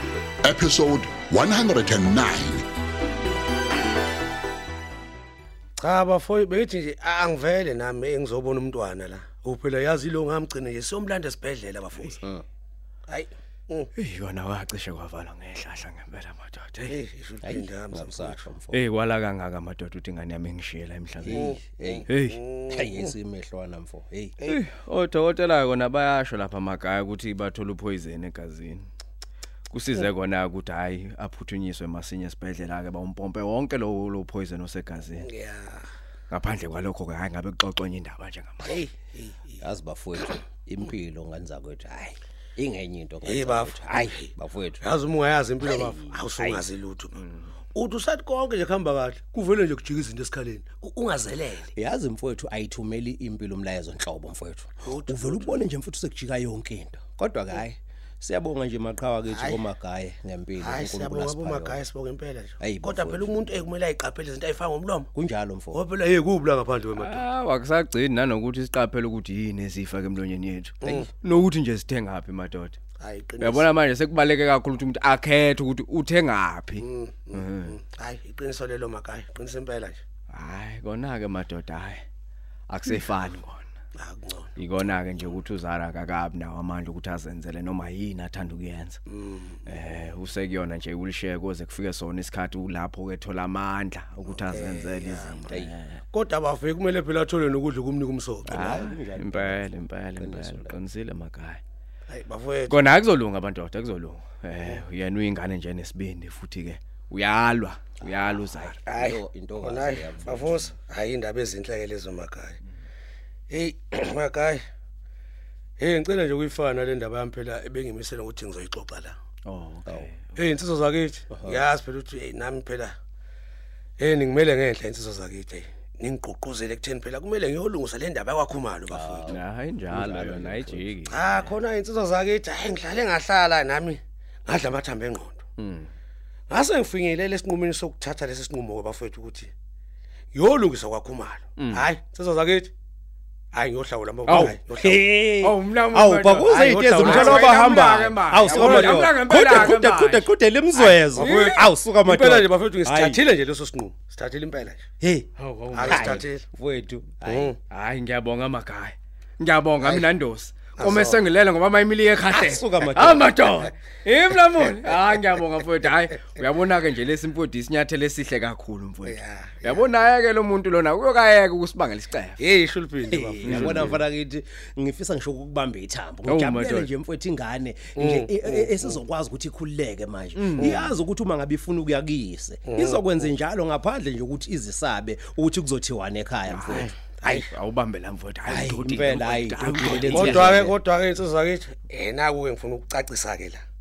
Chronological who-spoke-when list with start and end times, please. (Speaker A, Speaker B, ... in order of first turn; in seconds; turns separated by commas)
Speaker A: 0.4-2.6, Speaker B: 5.8-12.1, Speaker C: 12.0-12.4, Speaker B: 13.1-13.9, Speaker D: 14.0-16.9, Speaker B: 16.9-18.5, Speaker C: 17.4-18.9, Speaker D: 18.7-21.3, Speaker C: 21.2-22.1, Speaker B: 21.3-23.1, Speaker D: 22.1-22.4, Speaker C: 22.7-24.4, Speaker D: 24.4-28.9, Speaker D: 29.7-35.3, Speaker B: 35.2-35.9, Speaker D: 36.3-38.8, Speaker B: 38.6-39.6, Speaker C: 39.6-44.9, Speaker B: 43.2-47.2, Speaker C: 45.6-46.7, Speaker B: 47.7-51.7, Speaker C: 51.8-61.9, Speaker B: 54.8-55.6, Speaker B: 59.3-59.7, Speaker B: 60.6-65.1, Speaker C: 62.6-63.7, Speaker C: 65.1-65.9, Speaker B: 65.7-67.2, Speaker D: 67.0-72.8, Speaker B: 73.0-73.7, Speaker D: 73.4-77.7, Speaker B: 76.8-80.0, Speaker D: 80.3-82.0, Speaker D: 82.7-83.7, Speaker B: 84.0-84.5, Speaker D: 84.6-89.0, Speaker B: 89.1-89.7, Speaker D: 89.7-96.0, Speaker B: 94.3-95.6, Speaker C: 95.5-95.7, Speaker B: 96.1-98.7, Speaker C: 98.5-100.8, Speaker D: 98.5-101.6, Speaker B: 102.1-102.8, Speaker D: 102.7-108.8, Speaker C: 108.0-110.8, Speaker B: 108.8-112.6, Speaker B: 113.5-114.6, Speaker B: 115.8-119.2, Speaker D: 119.5-120.4, Speaker C: 119.9-120.1, Speaker B: 120.4-123.0, Speaker C: 121.3-121.7, Speaker B: 124.0-129.3, Speaker C: 128.9-131.5, Speaker D: 129.3-131.2, Speaker B: 131.1-135.4, Speaker D: 135.6-135.9, Speaker B: 136.5-139.5, Speaker B: 140.3-142.7, Speaker B: 143.5-145.0, Speaker C: 144.3-153.3, Speaker D: 144.4-151.6, Speaker B: 146.6-149.1, Speaker B: 151.1-154.8, Speaker C: 155.0-155.3, Speaker D: 155.4-155.9, Speaker B: 155.7-156.5, Speaker C: 155.8-157.6, Speaker B: 157.2-157.6, Speaker D: 157.7-172.4, Speaker C: 159.8-160.1, Speaker B: 160.8-161.2, Speaker C: 162.2-163.4, Speaker B: 169.1-169.8, Speaker B: 172.4-174.0, Speaker C: 173.0-187.5, Speaker D: 173.5-174.0, Speaker D: 176.3-176.9, Speaker B: 178.0-179.0, Speaker D: 180.3-180.8, Speaker B: 180.6-180.9, Speaker B: 182.6-183.1, Speaker D: 186.5-190.7, Speaker C: 188.4-190.8, Speaker B: 189.8-193.6